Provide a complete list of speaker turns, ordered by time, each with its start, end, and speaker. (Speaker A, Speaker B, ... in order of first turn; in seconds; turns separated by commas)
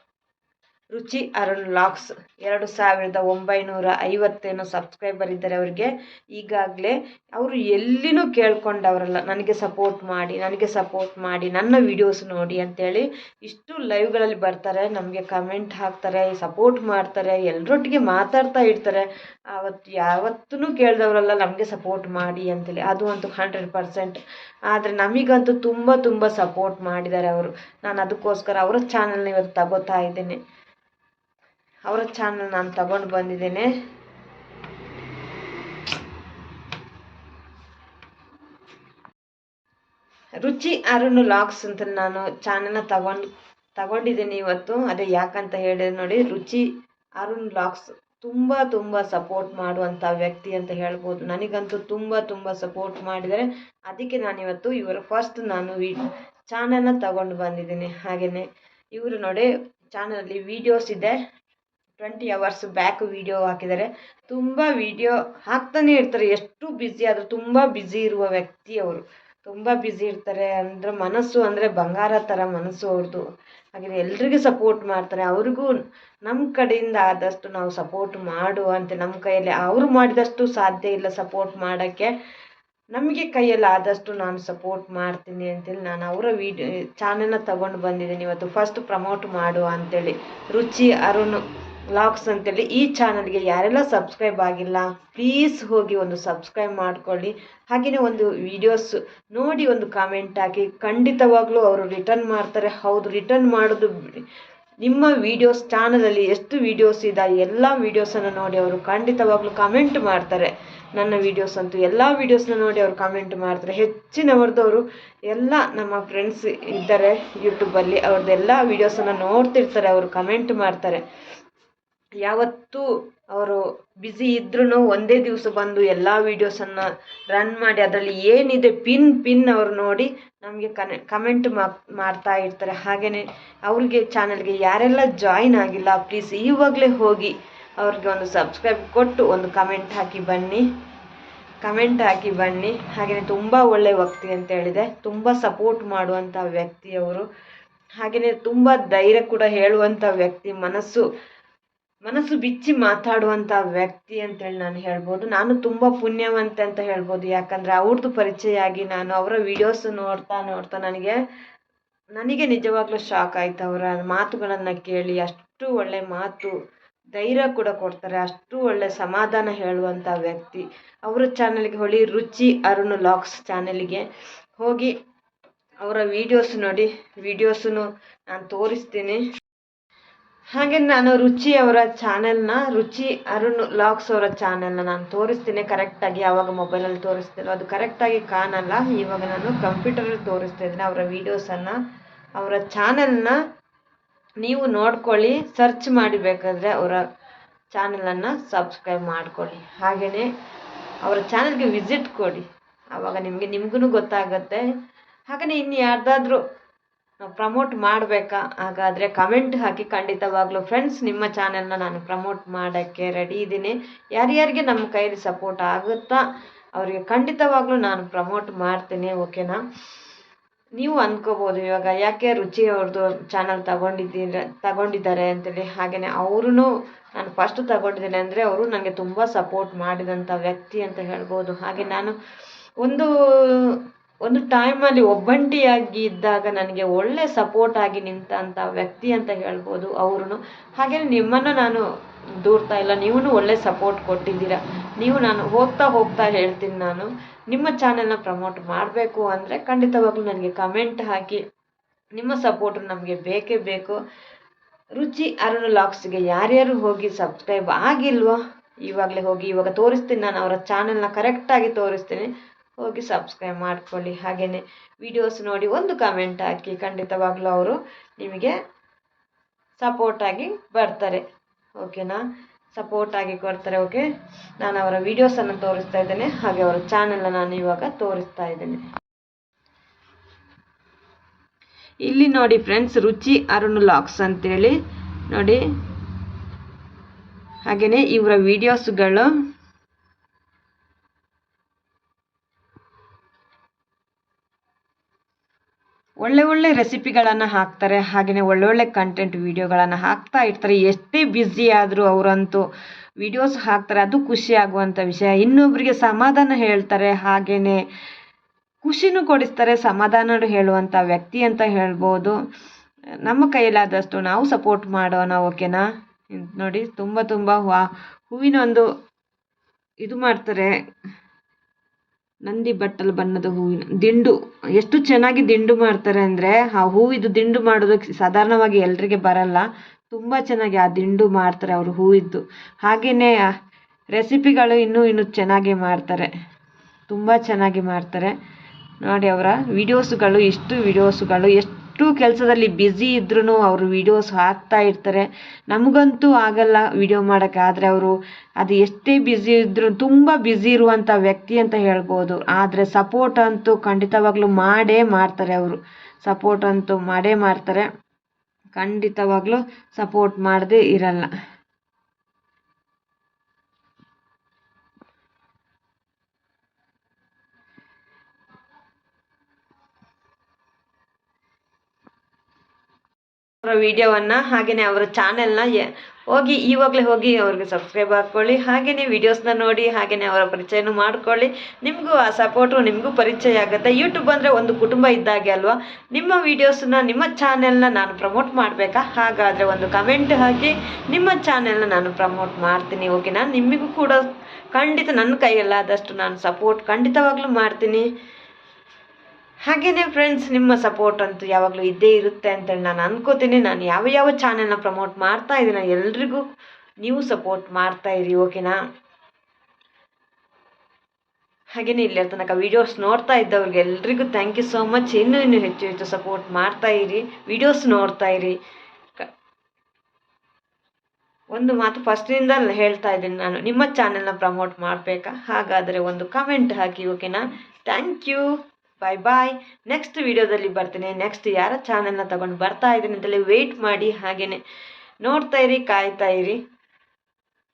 Speaker A: 0.9-30.4, Speaker A: 31.9-33.7, Speaker A: 40.4-46.7, Speaker A: 47.2-61.2, Speaker A: 62.0-73.2, Speaker A: 73.8-75.7, Speaker A: 76.3-82.1, Speaker A: 82.9-91.4, Speaker A: 92.0-103.9, Speaker A: 104.8-121.0, Speaker A: 122.2-140.6, Speaker A: 141.6-147.2, Speaker A: 148.0-151.1, Speaker A: 152.0-161.2, Speaker A: 162.2-166.5, Speaker A: 167.2-174.1, Speaker A: 174.6-174.9, Speaker A: 175.8-179.2, Speaker A: 180.5-191.8, Speaker A: 192.4-193.4, Speaker A: 194.4-197.0, Speaker A: 197.7-200.3, Speaker A: 201.1-204.7, Speaker A: 205.3-206.4, Speaker A: 207.2-216.2, Speaker A: 216.8-219.6, Speaker A: 220.8-232.2, Speaker A: 232.8-241.8, Speaker A: 242.4-251.4, Speaker A: 252.2-254.0, Speaker A: 255.0-268.6, Speaker A: 269.8-271.2, Speaker A: 271.8-272.2, Speaker A: 272.7-274.0, Speaker A: 274.6-278.8, Speaker A: 282.1-284.8, Speaker A: 285.3-285.6, Speaker A: 287.7-289.3, Speaker A: 296.2-302.6, Speaker A: 303.2-307.8, Speaker A: 308.8-312.4, Speaker A: 313.3-318.9, Speaker A: 320.0-320.7, Speaker A: 322.5-333.4, Speaker A: 334.1-336.3, Speaker A: 337.1-338.3, Speaker A: 339.0-357.9, Speaker A: 358.8-361.3, Speaker A: 373.6-394.2, Speaker A: 394.7-398.1, Speaker A: 399.7-406.4, Speaker A: 407.0-408.8, Speaker A: 411.8-418.6, Speaker A: 421.5-434.6, Speaker A: 435.2-436.6